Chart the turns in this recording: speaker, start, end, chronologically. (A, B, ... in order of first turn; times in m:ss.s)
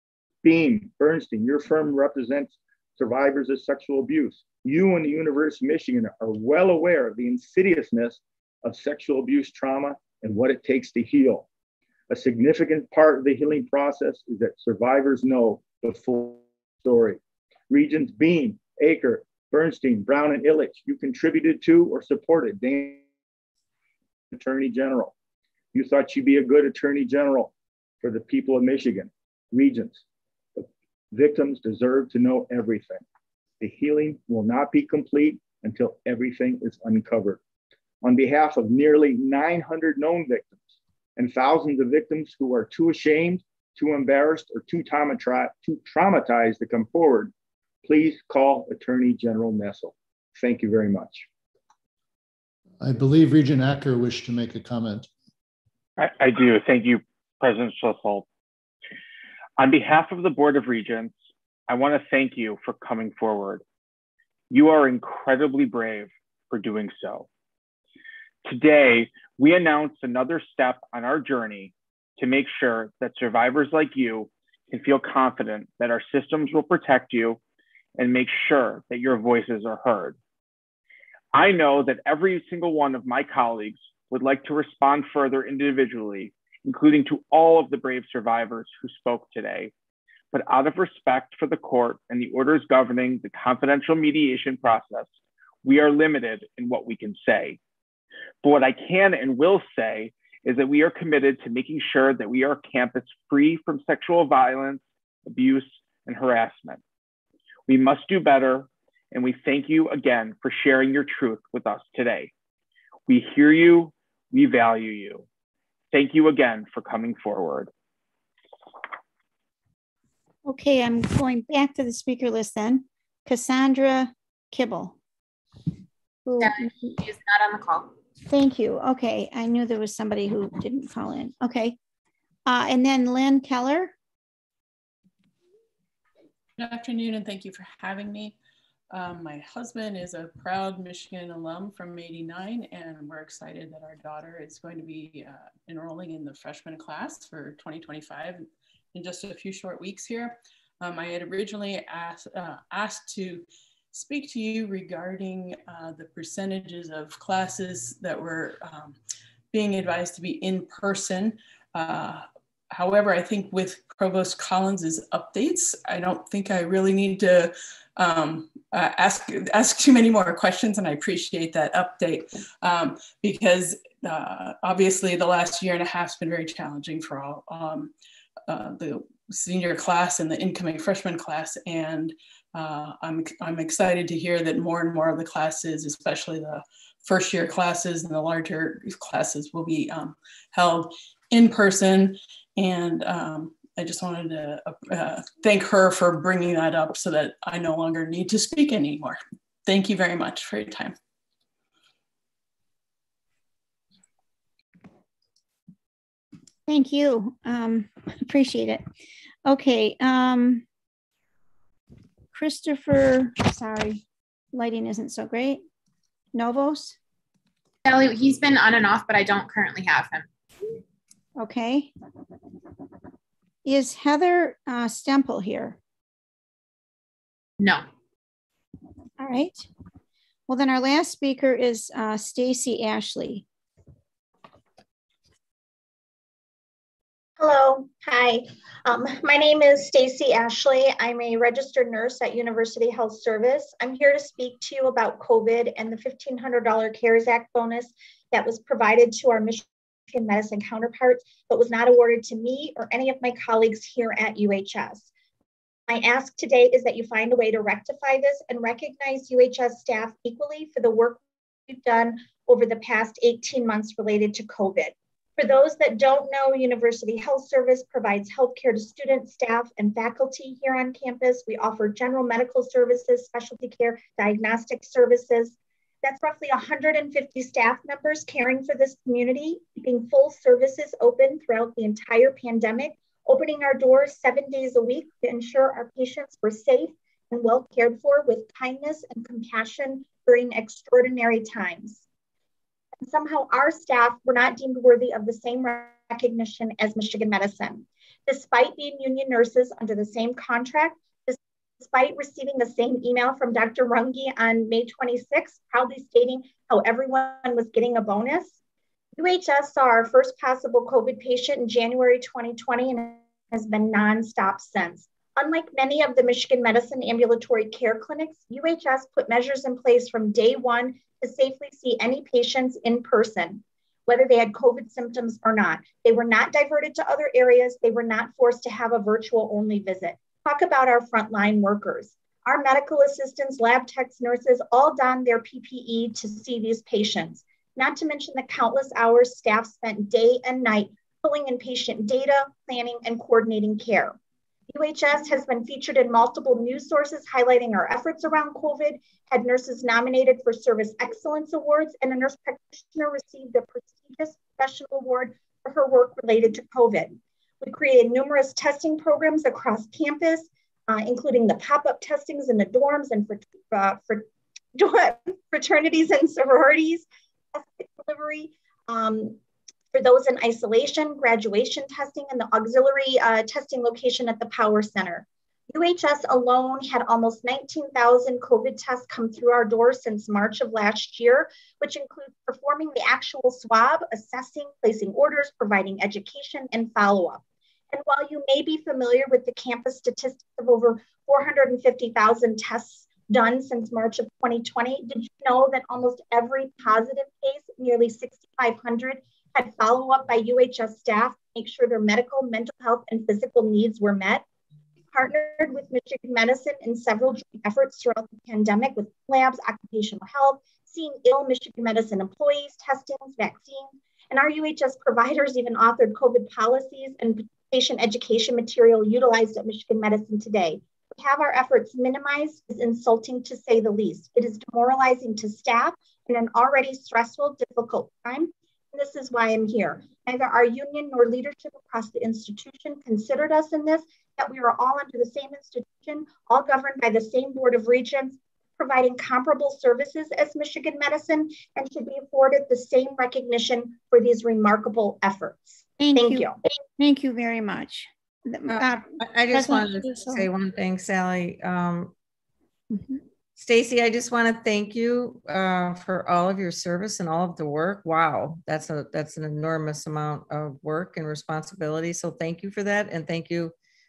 0:00.4-0:11.5 A
0:12.1-0:17.2 A
0:17.7-0:23.0 A
0:24.3-0:25.1 A
0:25.7-0:30.0 A
0:30.6-0:33.0 A
0:33.6-0:37.4 A
0:38.0-0:40.6 A
0:41.2-0:47.3 A
0:47.8-0:51.3 A
0:52.8-0:55.1 B
0:56.0-0:58.3 C
0:59.6-1:03.6 C
1:04.5-1:07.3 C
1:08.4-1:17.4 C
1:18.0-1:20.2 C
1:21.3-1:29.7 C
1:30.3-1:35.1 C
1:35.6-1:37.6 C
1:38.4-1:46.8 C
1:47.7-1:52.3 C
1:53.1-1:55.3 C
1:55.9-1:57.7 C
2:00.5-2:04.9 D
2:06.3-2:06.9 D
2:06.4-2:07.9 E
2:08.3-2:11.8 D
2:12.5-2:13.9 D
2:16.6-2:18.4 F
2:18.9-2:39.0 F
2:39.5-2:57.9 F
2:58.5-3:21.0 F
3:26.7-3:28.8 D
3:29.4-3:30.6 D
3:32.3-3:34.0 D
3:34.5-3:35.6 D
3:36.3-3:37.0 D
3:37.8-3:40.3 E
3:41.4-3:41.9 D
3:43.6-3:45.8 D
3:47.6-3:47.9 E
3:49.2-3:49.7 D
3:50.5-3:53.4 D
3:57.4-4:15.1 G
4:15.9-4:52.0 G
4:53.0-5:08.5 G
5:09.2-5:44.2 G
5:44.7-6:07.0 G
6:07.6-6:09.4 G
6:09.9-6:44.4 G
6:45.1-7:26.5 G
7:26.0-7:30.4 D
7:28.7-7:32.1 H
7:32.9-7:33.2 D
7:33.6-7:43.7 H